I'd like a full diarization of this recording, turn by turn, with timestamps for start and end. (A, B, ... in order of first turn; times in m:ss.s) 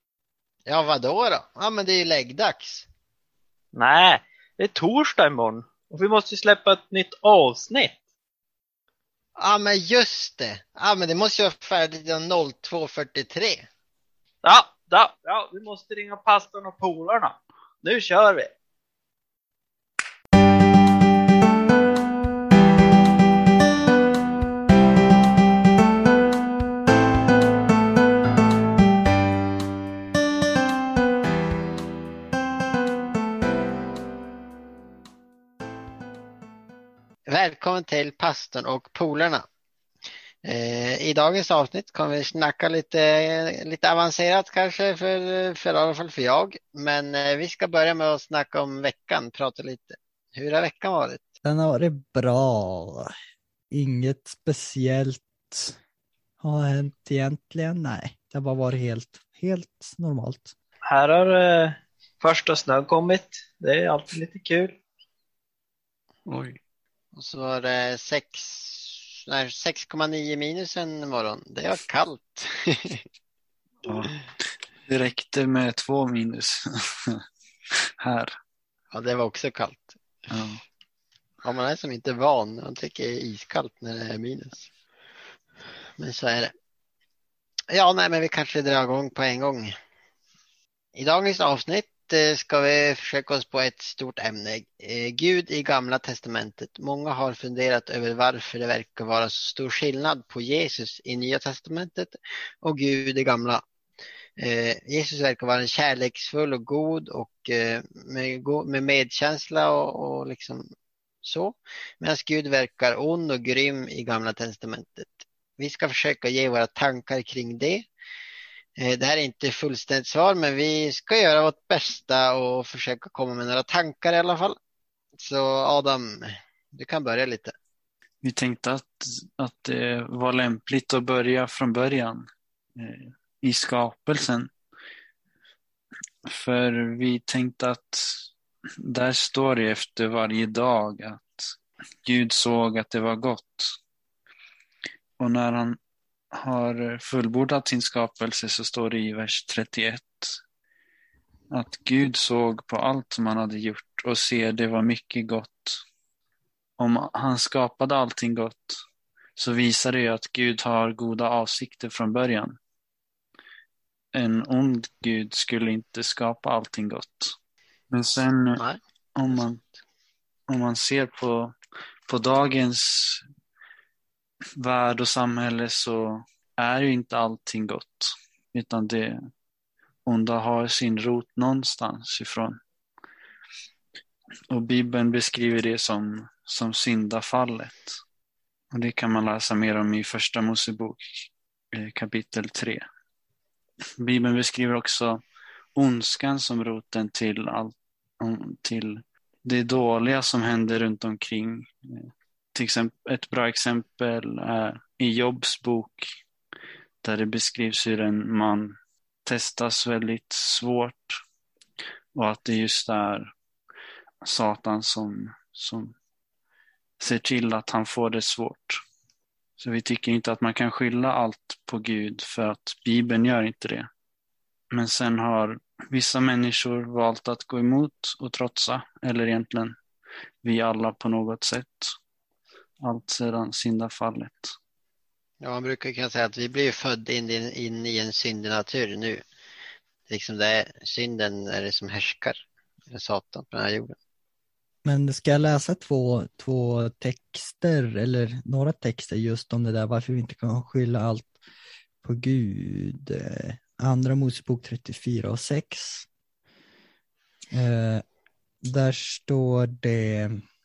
0:00.6-0:02.9 A
0:03.7-0:08.0 B
0:09.4-0:13.6 A
0:14.4-0:18.5 B
0:37.3-0:39.5 A
0:40.4-0:51.2 A
0:51.4-0:53.1 C
0:53.7-0:55.8 C
0:56.4-1:00.5 C
1:00.9-1:04.8 B
1:06.2-1:06.6 D
1:07.1-1:13.0 A
1:13.8-1:17.2 D
1:18.0-1:18.4 D
1:18.9-1:20.0 A
1:20.3-1:20.6 D
1:21.4-1:24.7 A
1:26.0-1:26.5 A
1:27.7-1:29.7 A
1:30.9-1:43.6 A
1:44.4-1:50.7 A
1:51.2-1:57.9 A
1:58.8-2:04.6 A
2:05.2-2:07.5 A
2:08.2-2:12.2 D
2:12.8-2:14.5 D
2:16.2-2:18.2 D
2:18.8-2:21.5 D
2:22.0-2:23.8 D
2:25.2-2:25.8 D
2:26.3-2:30.4 D
2:31.5-2:35.8 D
2:36.8-2:38.8 D
2:39.4-2:42.6 D
2:44.1-2:47.4 D
2:47.9-2:48.6 D
2:48.6-2:49.5 A
2:49.2-2:49.6 D
2:50.5-2:51.5 D
2:52.1-2:53.2 D
2:54.6-2:59.2 D
3:00.0-3:02.6 D
3:04.5-3:08.0 D
3:08.7-3:12.8 D
3:14.0-3:15.2 D
3:15.7-3:26.1 D
3:27.0-3:31.2 D
3:32.1-3:33.3 D
3:34.2-3:35.9 D
3:37.0-3:38.8 D
3:39.6-3:43.9 D
3:44.7-3:49.7 D
3:50.4-3:52.0 D
3:52.8-3:54.5 D
3:55.4-3:59.2 A
4:00.1-4:04.0 A
4:04.8-4:11.3 C
4:12.0-4:16.1 C
4:17.5-4:18.0 C
4:18.6-4:20.4 C